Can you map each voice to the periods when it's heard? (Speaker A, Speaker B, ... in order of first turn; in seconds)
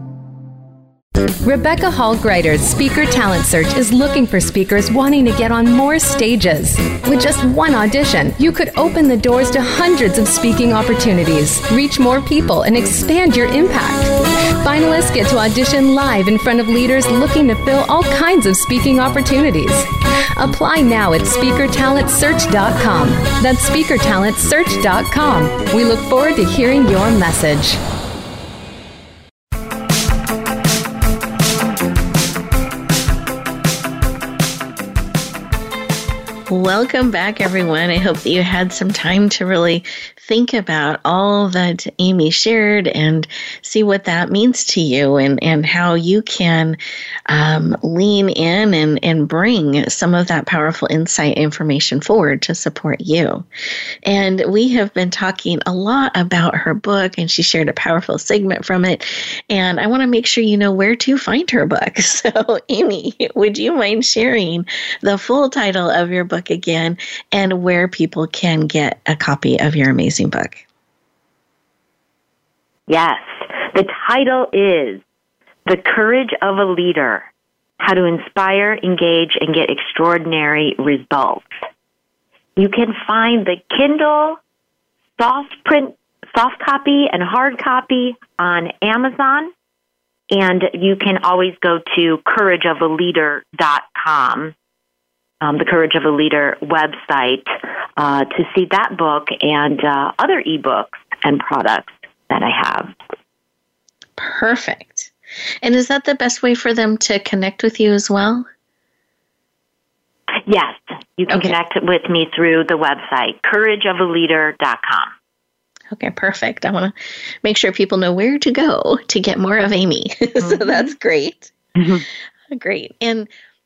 Speaker A: 1.4-27.8
Speaker B: 36.5-46.8, 47.3-53.5, 54.0-70.6, 104.2-105.1, 105.6-108.5, 111.3-111.5, 115.9-121.5, 122.5-123.3
Speaker C: 72.9-75.0, 75.7-77.3, 77.8-81.6, 82.6-84.4, 85.2-89.5, 90.3-94.5, 95.4-103.0, 110.4-115.1, 120.4-120.8, 121.8-122.0